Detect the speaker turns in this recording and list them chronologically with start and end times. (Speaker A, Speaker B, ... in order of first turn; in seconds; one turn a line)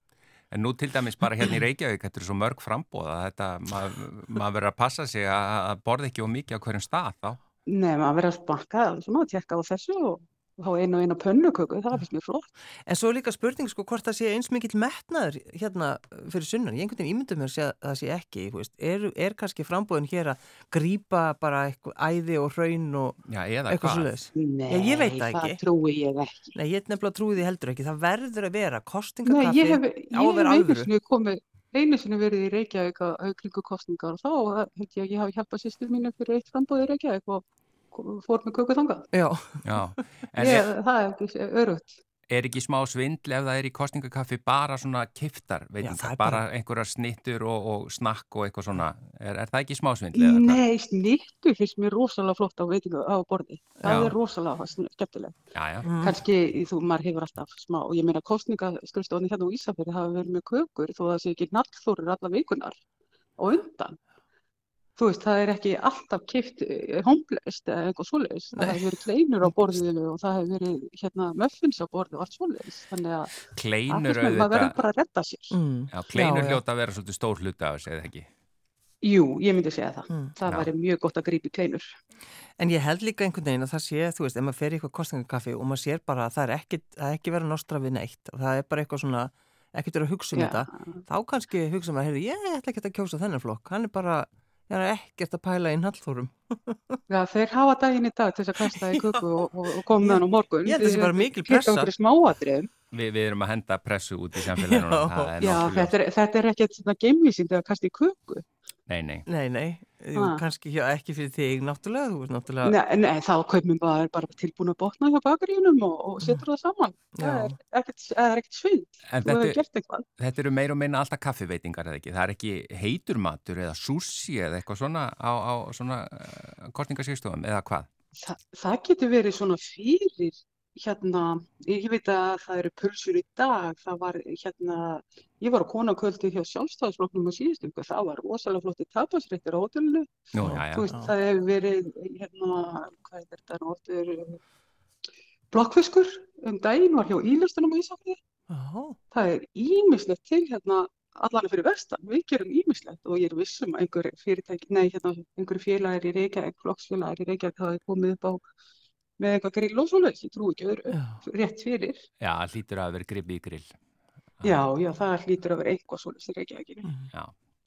Speaker A: 0.5-7.4
Speaker B: 7.7-12.5
Speaker C: 12.9-25.6
Speaker A: 23.3-24.1
Speaker B: 24.3-26.6
Speaker C: 26.5-30.9
Speaker B: 29.2-39.1
Speaker C: 39.1-40.0
Speaker A: 39.6-40.7
Speaker B: 40.4-42.0
Speaker A: 42.3-50.6
Speaker C: 45.8-46.4
Speaker B: 50.1-55.4
Speaker A: 53.8-54.1
Speaker A: 55.5-55.9
Speaker C: 55.8-56.2
Speaker B: 56.0-62.8
Speaker B: 63.4-64.0
Speaker B: 65.0-75.6
Speaker C: 68.5-69.0
Speaker A: 73.5-74.8
Speaker C: 75.5-76.6
Speaker A: 75.9-78.3
Speaker B: 79.0-81.9
Speaker C: 80.1-80.3
Speaker A: 80.5-80.7
Speaker C: 82.6-97.0
Speaker B: 90.3-90.8
Speaker B: 97.1-102.7
Speaker C: 98.6-99.2
Speaker C: 99.9-101.9
Speaker A: 102.9-105.9
Speaker C: 104.3-105.4
Speaker B: 105.4-108.5
Speaker A: 108.9-109.2
Speaker C: 109.3-112.8
Speaker B: 110.1-110.4
Speaker B: 112.6-120.1
Speaker C: 117.2-117.5
Speaker A: 119.1-119.6
Speaker A: 120.2-127.9
Speaker B: 128.2-140.2
Speaker A: 140.3-140.9
Speaker C: 140.4-141.1
Speaker B: 140.7-144.4
Speaker B: 145.5-148.2
Speaker C: 148.5-149.0
Speaker B: 149.1-158.4
Speaker B: 159.2-162.0
Speaker C: 160.9-161.2
Speaker A: 162.2-163.7
Speaker B: 164.4-166.9